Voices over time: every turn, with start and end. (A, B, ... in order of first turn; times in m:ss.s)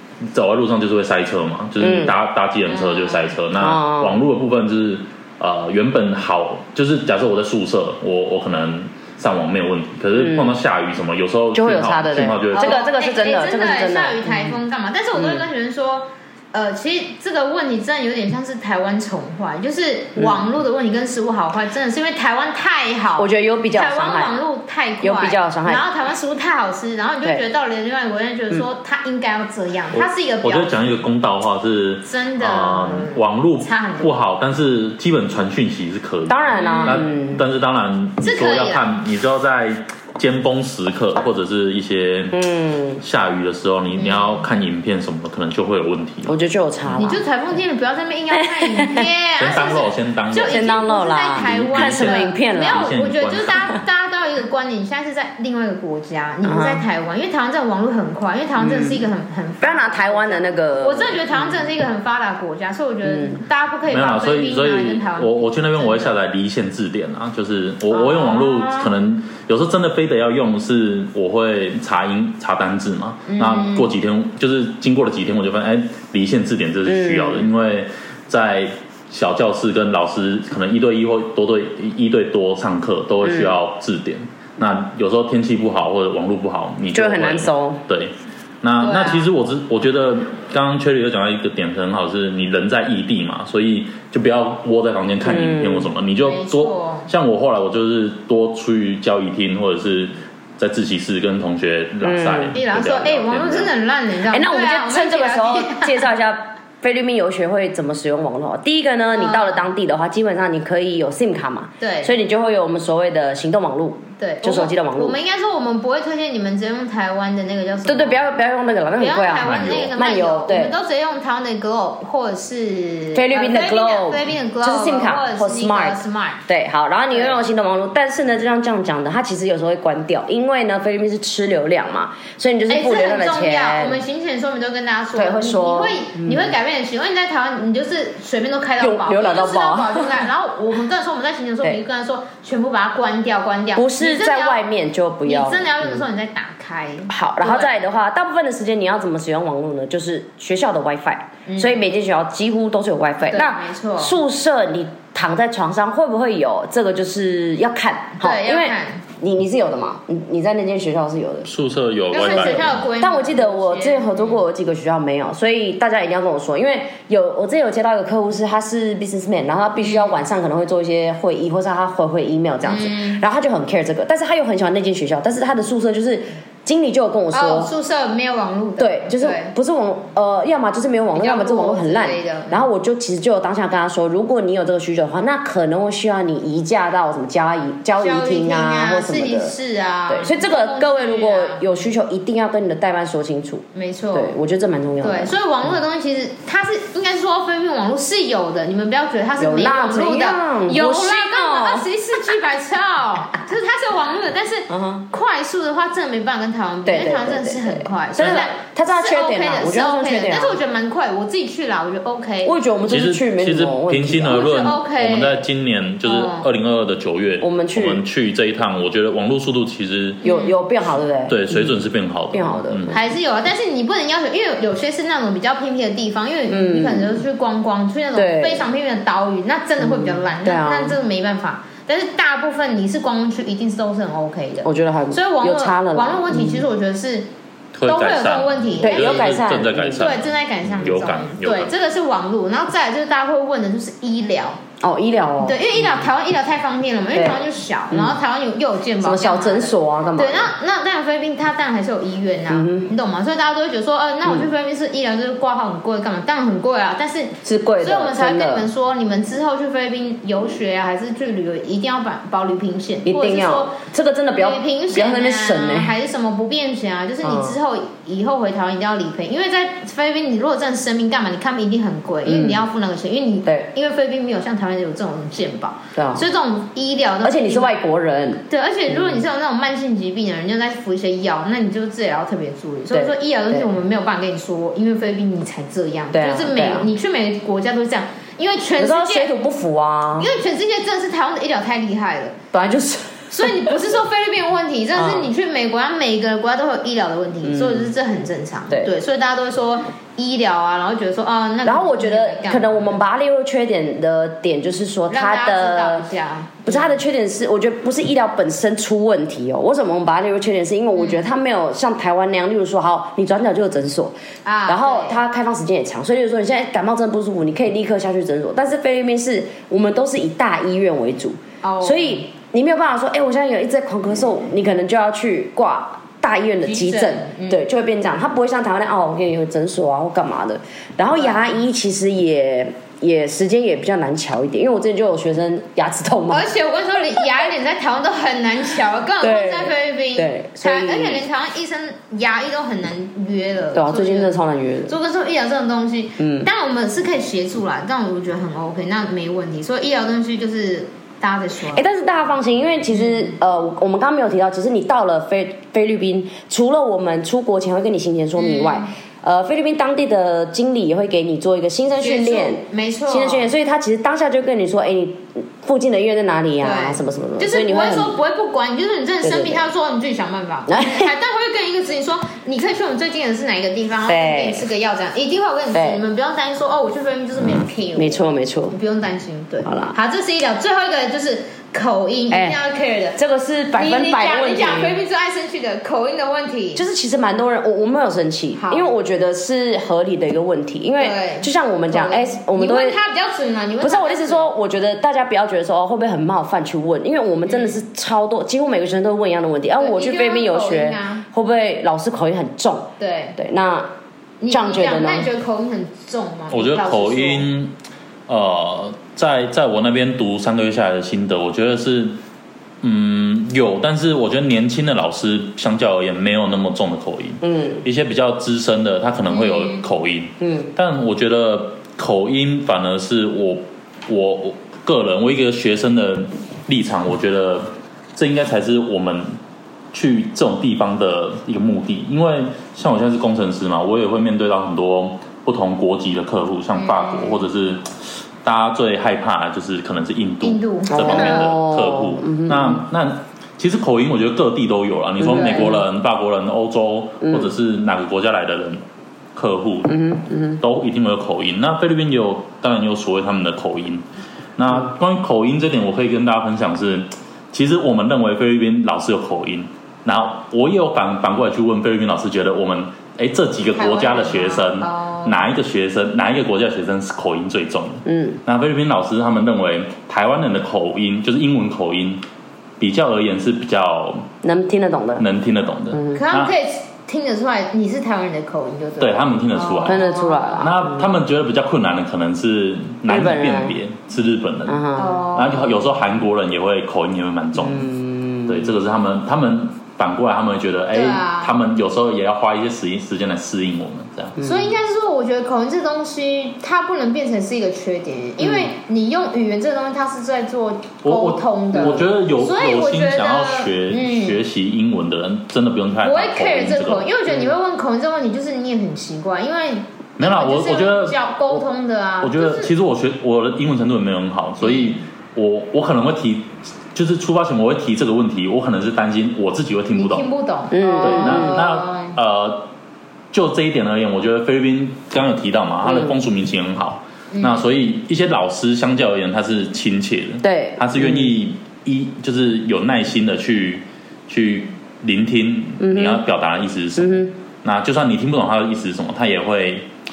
0:00.3-0:12.9 A
0:01.8-0:02.2 B
0:02.7-0:03.4 C
0:03.6-0:04.2 B
0:10.1-0:10.6 B
0:11.5-0:14.6 B
0:12.5-0:30.8 C
0:15.2-0:15.4 B
0:23.2-0:24.3 B
0:25.0-0:25.8 B
0:29.9-0:42.4 A
0:32.0-0:34.2 C
0:36.3-0:37.4 B
0:36.5-0:37.0 C
0:38.2-0:38.8 C
0:42.3-0:43.0 B
0:43.0-0:46.4 A
0:44.0-0:44.4 C
0:46.3-0:47.2 B
0:47.0-1:06.1 C
0:48.4-0:49.0 B
0:49.4-0:53.8 A
0:50.5-0:52.9 B
0:56.4-0:56.8 B
0:58.6-0:59.0 B
0:59.6-1:01.6 B
1:03.0-1:03.4 B
1:03.9-1:43.7 A
1:07.9-1:08.9 C
1:13.3-1:13.9 C
1:16.9-1:17.5 B
1:23.2-1:23.6 B
1:26.9-1:27.8 B
1:28.8-1:29.3 C
1:35.2-1:35.9 B
1:36.2-1:37.1 C
1:42.0-1:42.6 B
1:42.5-1:46.1 C
1:44.3-1:55.2 B
1:49.1-1:49.7 C
1:51.8-1:52.1 C
1:54.2-1:58.3 C
1:57.9-2:00.8 B
1:59.0-2:06.4 C
1:59.4-2:00.0 A
2:03.1-2:14.0 B
2:07.1-2:07.4 C
2:12.7-2:24.6 C
2:15.1-2:16.6 B
2:18.8-2:20.2 B
2:23.8-2:26.0 B
2:25.3-2:27.8 C
2:27.1-2:41.5 B
2:31.5-2:31.8 C
2:33.3-2:34.2 C
2:38.2-2:39.0 C
2:41.5-2:42.8 A
2:42.1-2:44.4 C
2:42.2-2:57.7 B
2:49.8-2:50.1 C
2:52.7-2:53.2 C
2:57.3-2:59.5 C
2:58.8-3:09.5 B
3:01.1-3:02.7 C
3:08.0-3:11.6 C
3:10.1-3:15.4 B
3:13.8-3:14.3 C
3:15.0-3:32.6 C
3:19.4-3:21.9 B
3:24.7-3:25.1 B
3:26.8-3:30.6 B
3:32.4-3:34.5 B
3:32.9-3:40.2 A
3:34.3-3:35.4 C
3:36.0-3:36.5 C
3:37.4-3:38.0 B
3:40.2-3:40.6 C
3:40.2-3:41.8 B
3:41.3-3:43.0 A
3:42.3-3:43.0 B
3:42.9-3:57.3 C
3:46.5-3:47.2 B
3:48.1-3:48.7 B
3:49.8-3:51.0 B
3:54.6-3:56.6 B
3:57.7-4:01.7 A
3:57.9-3:59.4 C
3:58.8-4:00.1 B
4:00.0-4:04.6 C
4:04.8-4:06.0 B
4:05.4-4:23.8 C
4:07.1-4:08.2 B
4:09.0-4:10.5 B
4:12.5-4:12.9 B
4:17.4-4:18.7 B
4:23.0-4:25.9 B
4:24.4-4:37.8 C
4:27.2-4:27.6 B
4:32.2-4:32.6 B
4:36.0-4:36.2 B
4:37.2-4:39.2 B
4:38.5-4:49.3 C
4:42.9-4:43.7 B
4:46.1-4:46.9 B
4:48.8-4:50.3 B
4:50.2-4:52.4 C
4:52.5-4:53.8 B
4:53.3-5:03.0 C
4:55.0-4:55.3 B
4:57.4-4:57.9 B
5:01.6-5:06.1 B
5:05.1-5:07.0 C
5:06.6-5:14.2 B
5:11.0-5:11.2 C
5:14.4-5:15.2 C
5:14.7-5:36.4 B
5:21.6-5:22.2 C
5:26.6-5:27.6 C
5:31.1-5:31.4 C
5:36.3-5:44.3 C
5:39.2-5:41.2 B
5:43.7-5:44.9 B
5:44.9-5:51.9 C
5:46.2-5:46.5 B
5:51.7-6:08.2 B
5:58.4-5:58.9 C
6:02.0-6:03.5 C
6:06.6-6:23.2 C
6:09.2-6:09.6 B
6:10.7-6:11.1 B
6:14.1-6:14.7 B
6:15.7-6:16.0 B
6:18.0-6:18.8 B
6:19.6-6:20.0 B
6:22.3-6:22.6 B
6:23.2-6:25.0 B
6:23.8-6:26.8 C
6:26.8-6:33.0 B
6:28.6-6:28.9 C
6:31.0-6:34.5 C
6:33.8-6:43.9 B
6:37.5-6:37.8 C
6:39.8-6:41.2 C
6:43.0-6:43.4 C
6:44.4-6:47.5 C
6:44.5-6:45.3 B
6:46.5-6:47.7 A
6:48.3-6:52.2 A
6:52.8-7:09.3 A
6:57.4-6:57.8 B
6:59.3-6:59.8 C
7:00.4-7:00.7 B
7:09.9-7:17.9 A
7:16.8-7:17.4 C
7:18.4-7:28.8 A
7:20.4-7:21.5 C
7:20.9-7:22.8 B
7:25.2-7:25.8 B
7:25.3-7:25.7 C
7:27.2-7:27.5 B
7:29.4-7:30.0 A
7:29.9-7:30.6 B
7:30.6-7:34.0 A
7:34.6-7:52.2 A
7:43.7-7:45.4 C
7:48.1-7:48.4 B
7:52.8-7:54.3 A
7:54.4-7:55.2 B
7:55.2-7:56.5 A
7:55.9-7:56.2 B
7:56.1-8:00.6 C
7:59.0-8:00.1 A
7:59.8-8:01.1 B
8:00.6-8:07.9 A
8:03.1-8:03.8 B
8:04.7-8:05.2 B
8:05.0-8:05.9 C
8:07.6-8:08.7 B
8:08.4-8:14.4 A
8:10.9-8:11.5 C
8:14.4-8:14.7 B
8:14.4-8:24.4 C
8:18.4-8:18.7 B
8:21.0-8:27.1 A
8:26.0-8:32.7 C
8:30.2-8:31.6 A
8:32.2-8:40.3 A
8:34.6-8:35.0 C
8:40.0-8:42.2 C
8:40.7-8:41.6 B
8:41.0-8:42.7 A
8:43.3-8:59.9 A
8:45.8-8:46.1 B
8:47.3-8:47.7 C
8:50.4-8:51.3 B
8:55.8-8:56.2 B
8:57.0-8:57.3 B